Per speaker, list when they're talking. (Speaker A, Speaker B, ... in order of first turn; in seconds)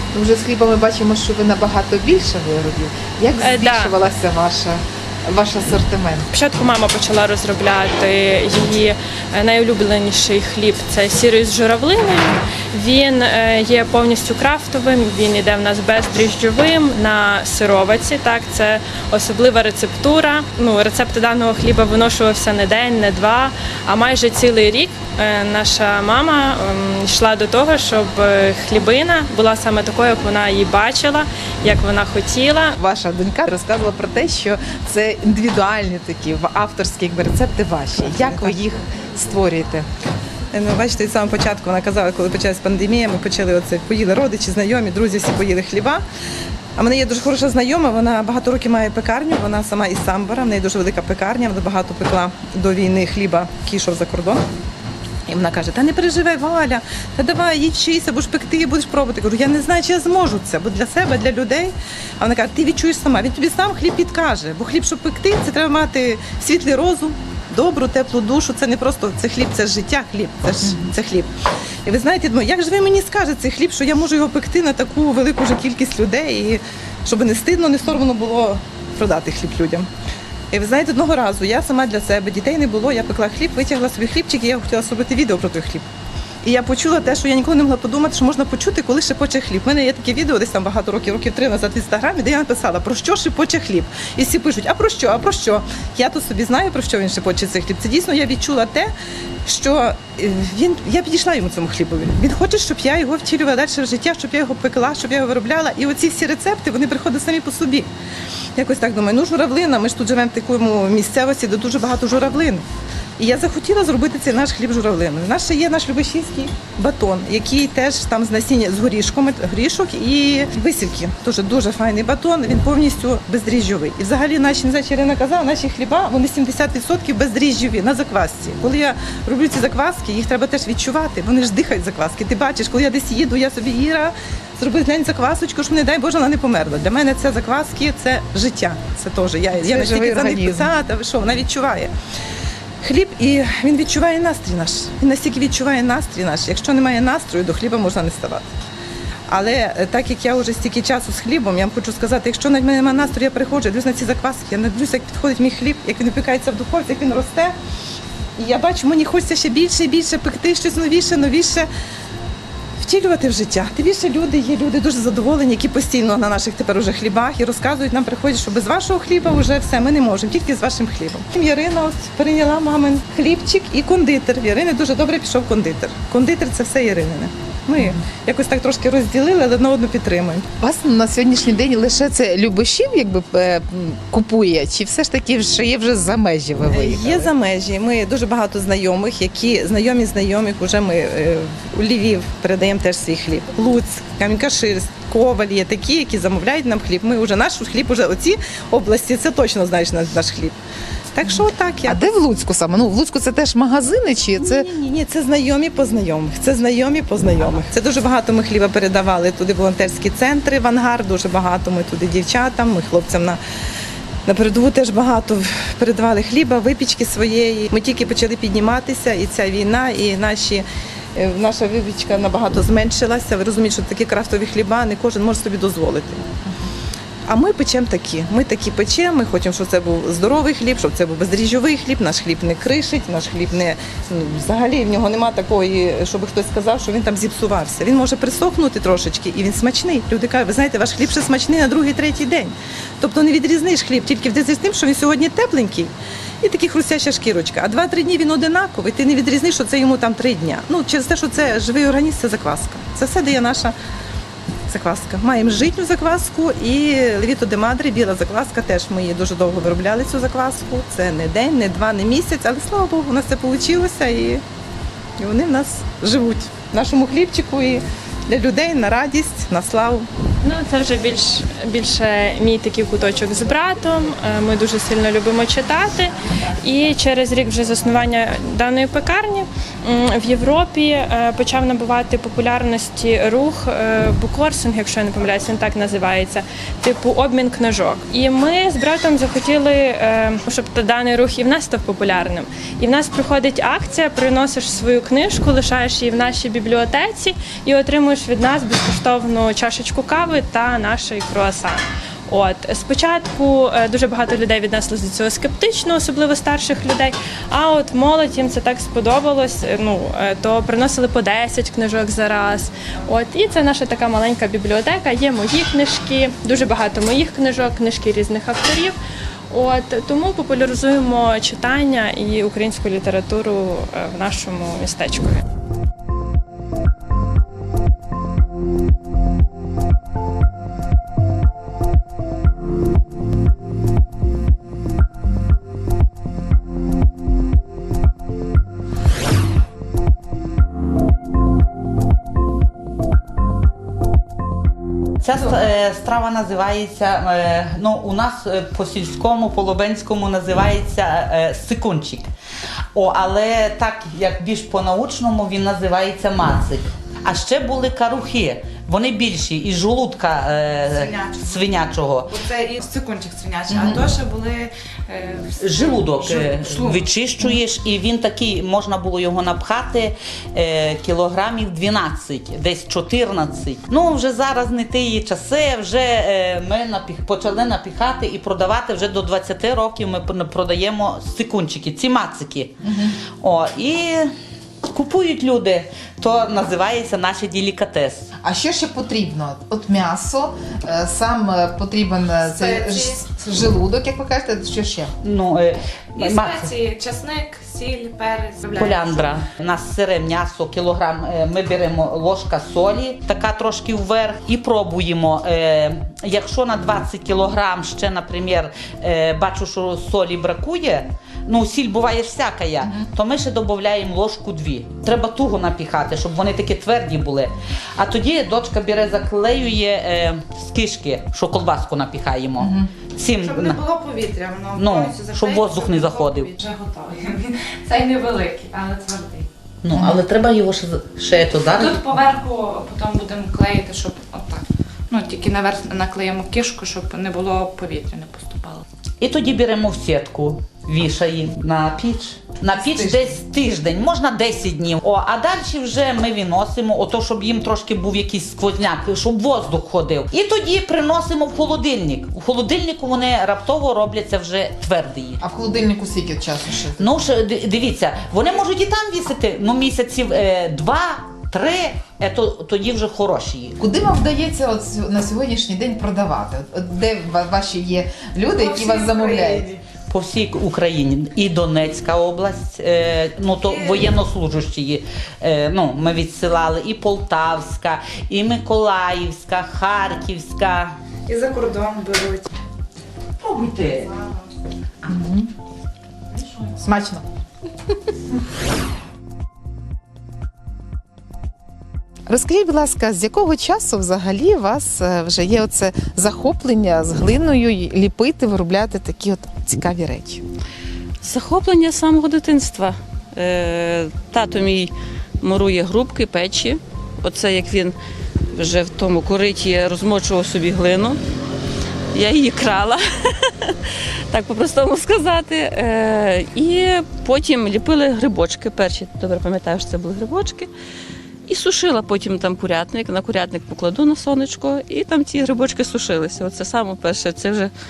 Speaker A: 0.1-6.3, 32.8-39.9, 139.5-140.7, 180.6-187.3, 201.3-204.7, 363.7-364.0, 382.8-383.1, 388.4-395.1, 422.6-422.9, 429.9-430.2, 442.7-443.3, 455.4-457.1, 463.8-469.7, 485.1-485.5, 486.8-487.2, 492.3-500.4
Speaker B: 3.4-3.9, 6.3-32.8, 270.4-318.9, 319.5-325.4
Speaker C: 40.5-46.0, 46.8-54.4, 55.3-71.3, 71.8-79.9, 80.5-85.8, 86.4-98.9, 99.5-107.9, 108.6-112.6, 113.2-141.9, 142.8-148.5, 149.3-157.5, 158.4-161.7, 162.8-180.4, 186.7-200.6, 201.1-202.1, 204.4-213.4, 214.2-226.2, 227.3-253.7, 254.7-264.4, 265.2-270.1
Speaker D: 345.2-352.3, 352.9-362.3, 365.6-382.7, 383.4-384.3, 384.9-388.2, 395.2-396.7, 398.7-423.8, 424.7-426.5, 429.8-432.1, 439.2-455.4, 457.0-463.8, 470.1-481.0, 483.4-484.1
Speaker E: 360.9-367.1, 392.4-393.2, 396.1-399.4, 423.4-429.5, 431.6-438.8, 468.5-469.8, 473.6-474.1, 481.2-482.5, 484.1-484.4, 486.4-486.7
Speaker F: 501.2-507.9, 508.5-511.2, 512.1-513.8, 514.3-520.7, 521.5-527.7